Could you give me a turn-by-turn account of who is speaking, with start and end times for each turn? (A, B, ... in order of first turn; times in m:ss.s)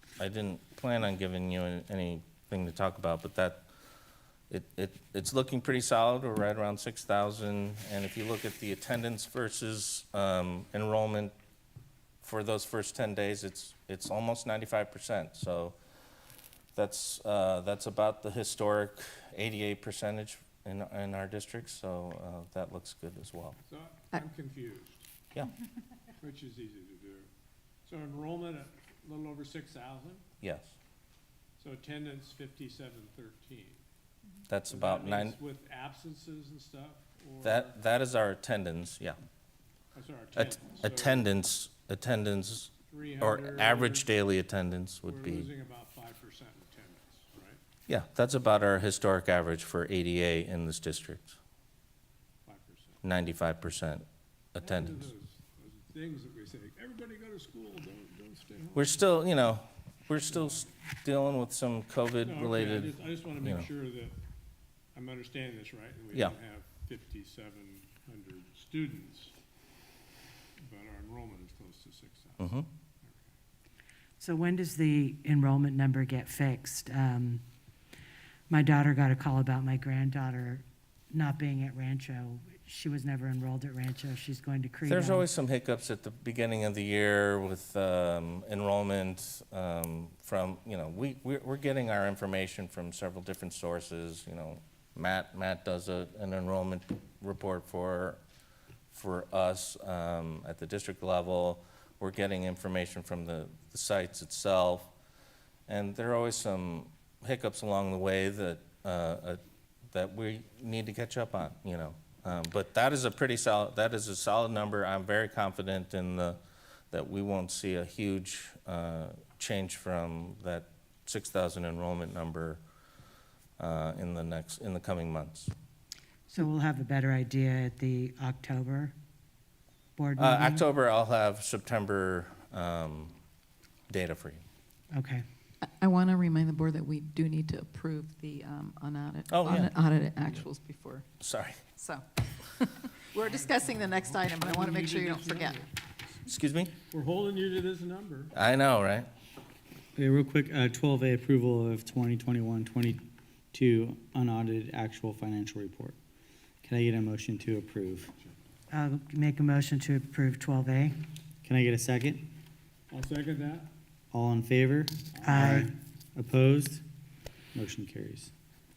0:00.2-0:03.7 A
0:04.5-0:11.3 A
0:12.2-0:15.8 A
0:16.8-0:23.6 A
0:23.7-0:25.1 B
0:26.2-0:27.3 B
0:27.8-0:30.2 B
0:30.4-0:30.8 A
0:31.6-0:33.8 B
0:34.5-0:35.4 A
0:34.7-0:37.8 B
0:37.4-0:39.2 A
0:39.9-0:41.3 B
0:40.4-0:45.5 A
0:42.9-0:44.1 B
0:45.1-0:47.6 B
0:47.9-0:51.4 A
0:52.4-0:53.0 B
0:53.0-0:55.1 A
0:54.6-0:59.1 B
0:58.8-1:03.7 A
1:00.3-1:00.7 B
1:02.2-1:04.2 B
1:05.0-1:09.3 B
1:10.6-1:12.5 B
1:12.4-1:12.7 A
1:14.2-1:17.4 C
1:18.5-1:25.3 C
1:24.8-1:38.2 A
1:38.9-1:44.9 A
1:45.7-1:49.4 A
1:49.9-1:56.4 A
1:56.9-2:02.6 A
2:03.6-2:05.5 A
2:06.3-2:09.0 C
2:10.0-2:10.7 C
2:10.2-2:13.2 A
2:13.9-2:14.4 A
2:14.9-2:15.2 C
2:15.6-2:21.1 D
2:19.3-2:19.7 A
2:21.2-2:21.6 A
2:21.7-2:25.6 D
2:23.2-2:25.7 B
2:26.3-2:26.7 A
2:26.9-2:28.3 B
2:28.3-2:29.1 A
2:30.0-2:36.0 E
2:36.6-2:38.1 E
2:38.7-2:41.0 C
2:41.4-2:42.3 E
2:42.9-2:43.7 B
2:44.1-2:46.8 E
2:45.2-2:45.4 B
2:45.2-2:45.7 C
2:47.5-2:48.3 E